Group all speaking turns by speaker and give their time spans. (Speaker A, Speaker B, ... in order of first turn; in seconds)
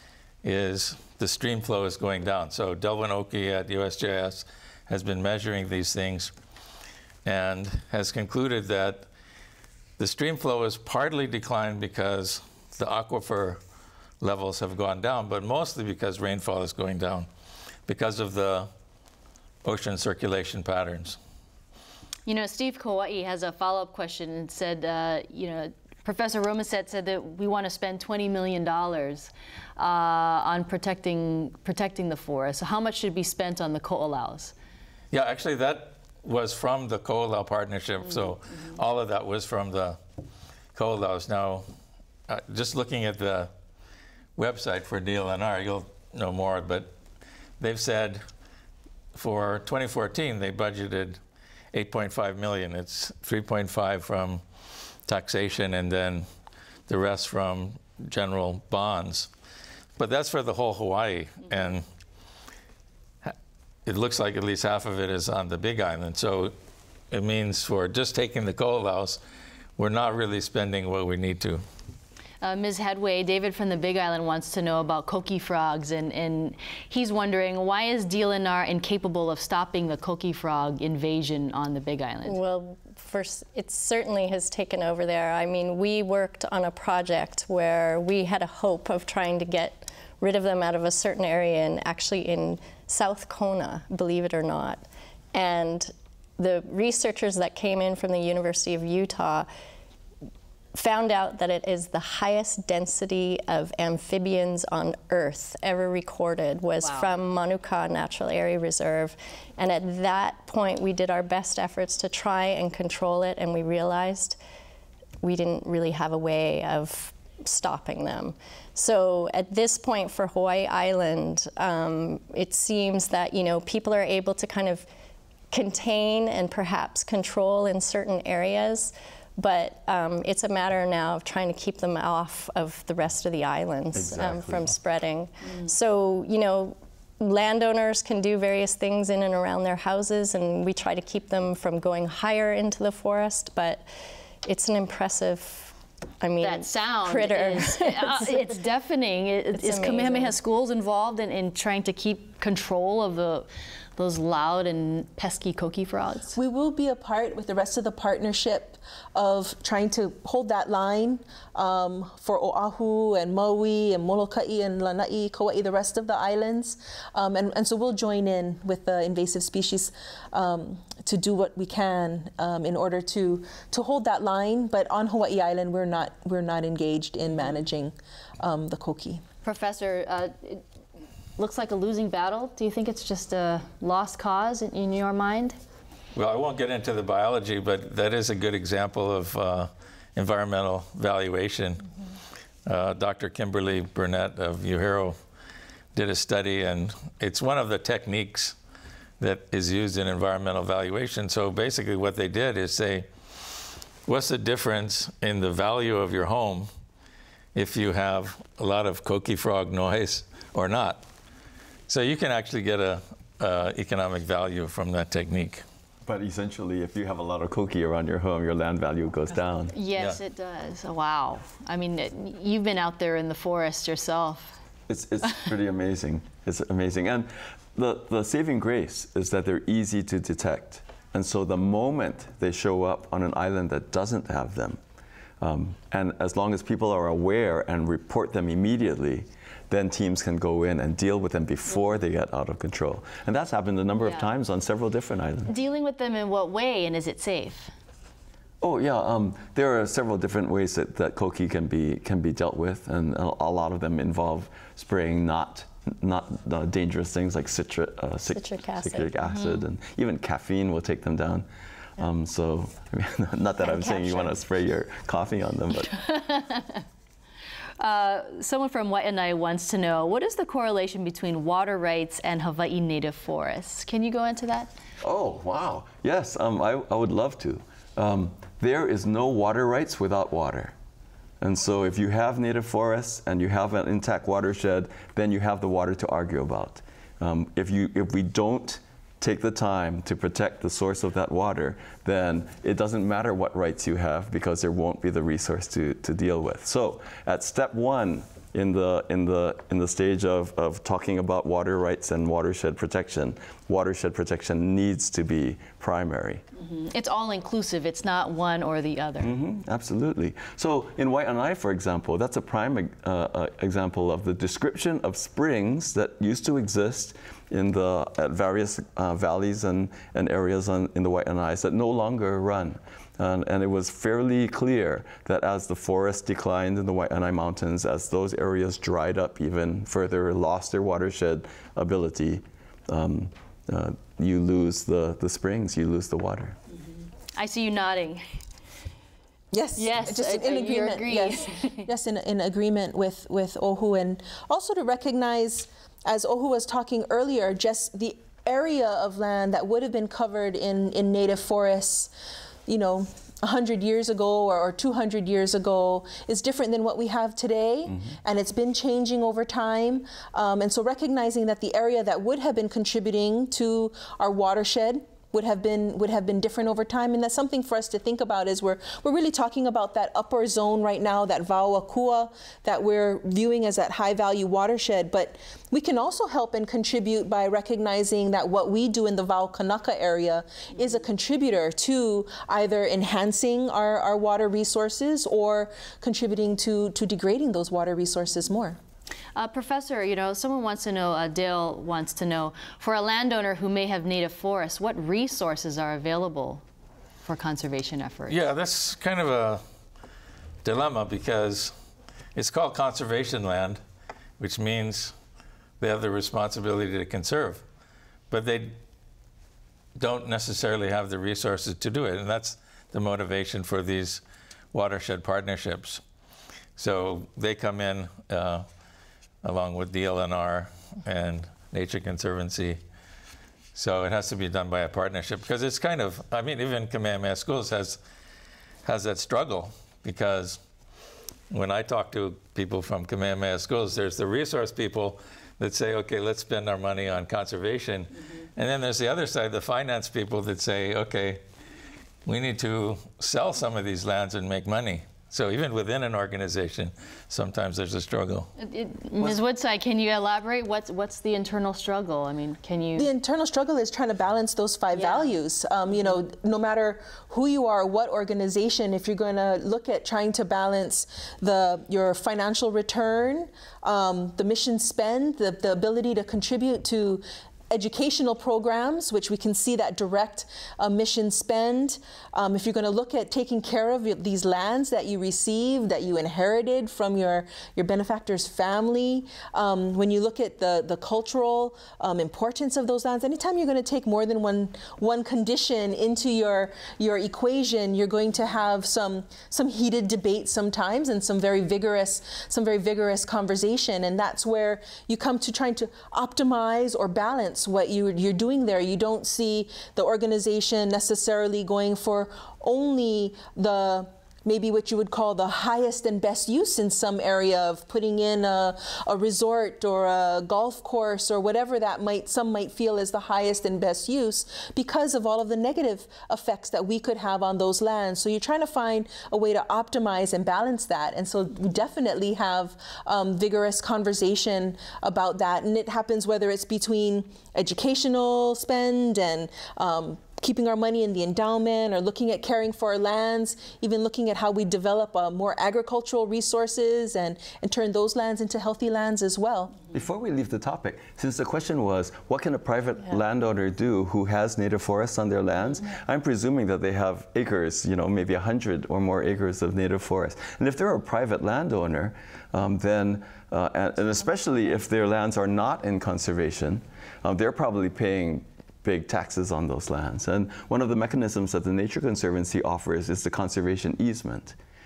Speaker A: 0.4-6.3, 7.2-9.1, 10.0-13.6, 14.2-17.3, 17.9-18.7, 19.6-21.2, 35.1-40.0, 40.7-41.6, 42.3-43.5, 44.4-46.9, 47.6-48.2, 49.1-51.2, 51.7-54.4, 55.0-56.2, 56.9-59.3, 60.0-61.9, 63.9-66.5, 67.1-69.2, 69.8-71.6, 186.1-191.8, 192.7-195.2, 195.9-198.6, 199.2-206.7, 207.5-211.0, 211.9-215.6, 398.3-399.6, 400.6-401.7, 402.3-403.8, 404.4-405.1, 405.8-407.6, 408.3-408.8, 409.9-416.0, 416.8-418.6, 419.4-422.8, 423.7-428.0, 428.8-430.6, 431.5-441.4, 442.2-448.5
Speaker B: 22.2-34.5, 72.4-82.4, 106.8-107.1, 146.4-156.4, 179.4-180.6, 181.4-185.6, 219.7-224.6, 245.5-247.7, 259.2-259.6, 265.9-266.8, 267.8-274.7, 306.6-309.4, 337.3-338.4, 339.8-341.9, 389.3-396.6, 397.2-398.4, 448.6-453.1, 454.9-455.3
Speaker C: 82.2-99.5, 100.7-114.4, 115.2-124.8, 125.5-143.8, 144.4-148.5, 149.5-150.3, 258.3-259.1, 263.6-264.3
Speaker D: 133.9-134.7, 216.1-219.7, 224.9-234.8, 235.4-245.5, 248.6-261.4, 262.0-266.0, 275.0-280.7, 281.4-306.4, 309.2-336.6, 539.9-564.5
Speaker E: 156.3-179.2, 339.5-352.1, 352.7-388.8, 452.9-539.9